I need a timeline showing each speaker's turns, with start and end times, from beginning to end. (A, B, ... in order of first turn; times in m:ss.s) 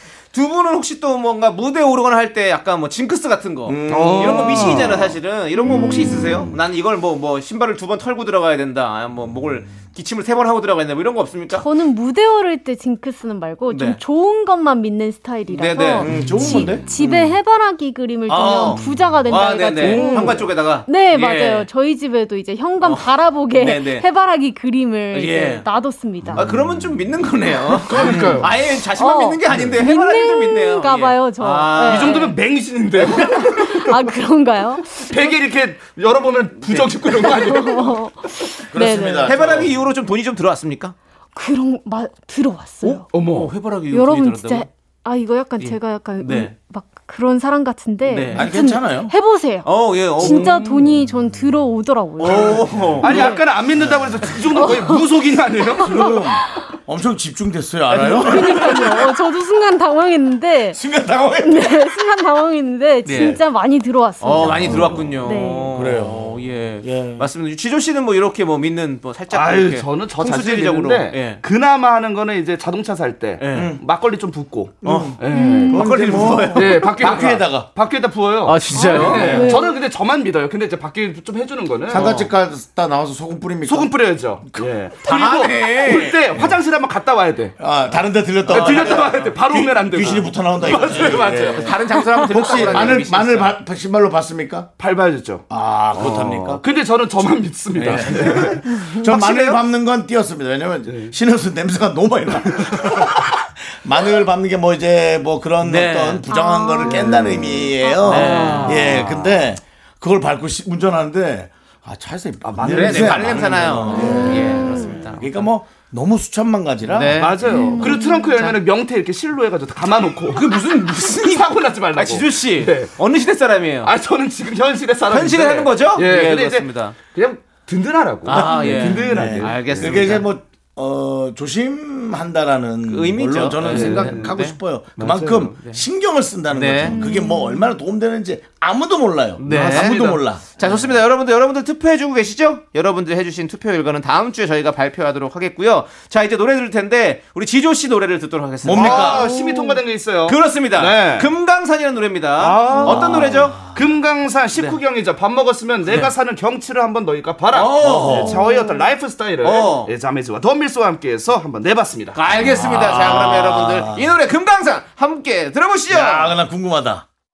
0:00.3-0:11.7 A
0:03.6-0:05.1 B
0:03.8-0:05.2 C
0:05.6-0:06.4 D
0:05.7-0:06.6 C
0:11.5-0:26.5 D
0:13.7-0:14.0 A
0:15.5-0:17.3 A
0:16.0-0:16.9 B
0:18.3-0:21.7 A
0:19.8-0:20.4 C
0:22.8-0:24.0 A
0:25.1-0:25.6 A
0:26.3-0:32.3 A
0:27.8-0:28.5 C
0:28.0-0:32.4 D
0:31.8-0:34.0 C
0:33.0-0:35.4 D
0:35.0-0:38.1 C
0:36.6-0:36.9 A
0:37.1-0:39.3 D
0:38.7-0:39.7 B
0:39.2-0:40.9 A
0:41.3-0:43.1 D
0:43.1-0:43.5 C
0:43.2-0:44.7 A
0:43.9-0:53.5 D
0:45.6-0:46.5 A
0:48.0-0:48.5 A
0:48.3-0:49.1 B
0:49.6-0:50.8 A
0:50.2-0:50.9 C
0:52.2-0:53.4 A
0:52.4-0:53.1 B
0:53.0-0:55.9 C
0:53.8-0:54.3 B
0:54.4-0:56.8 D
0:55.8-0:59.1 B
0:57.9-0:58.9 A
0:58.0-1:00.8 D
1:00.7-1:02.0 B
1:01.4-1:05.8 D
1:03.0-1:03.4 A
1:04.2-1:11.4 A
1:04.3-1:05.2 B
1:05.7-1:07.3 B
1:09.3-1:15.7 C
1:13.4-1:13.7 A
1:13.5-1:13.8 B
1:14.8-1:17.7 B
1:14.8-1:17.3 A
1:15.2-1:15.8 D
1:16.5-1:22.1 C
1:18.4-1:19.5 A
1:18.7-1:19.8 D
1:21.9-1:23.9 B
1:21.9-1:22.3 A
1:23.6-1:27.6 C
1:25.0-1:26.2 A
1:27.6-1:34.7 B
1:28.5-1:31.7 C
1:28.5-1:29.1 A
1:31.0-1:33.6 A
1:31.8-1:32.7 D
1:34.8-1:38.6 C
1:35.5-1:36.6 B
1:37.7-1:39.6 A
1:37.8-1:57.2 B
1:38.7-1:39.0 D
1:40.8-1:41.1 C
1:45.6-1:46.3 A
1:46.3-1:48.6 D
1:48.0-1:49.4 A
1:52.4-1:54.1 C
1:52.6-1:55.5 A
1:53.8-1:55.1 D
1:56.8-1:58.6 A
1:57.2-2:02.9 C
1:57.4-1:58.5 D
2:00.3-2:03.9 A
2:03.8-2:10.2 C
2:05.1-2:07.0 A
2:08.2-2:10.3 A
2:08.3-2:21.0 B
2:12.9-2:14.6 A
2:13.6-2:14.4 C
2:15.0-2:15.6 C
2:16.5-2:17.2 A
2:16.8-2:17.8 D
2:19.4-2:29.4 A
2:19.4-2:20.2 C
2:28.6-2:29.3 B
2:28.6-2:31.3 C
2:29.2-2:29.8 D
2:30.2-2:33.6 A
2:32.4-2:42.2 C
2:32.7-2:33.1 D
2:37.5-2:38.3 A
2:37.8-2:38.4 B
2:38.2-2:38.9 D
2:39.4-2:39.9 A
2:42.1-2:46.4 A
2:42.3-2:44.2 B
2:45.9-2:47.0 B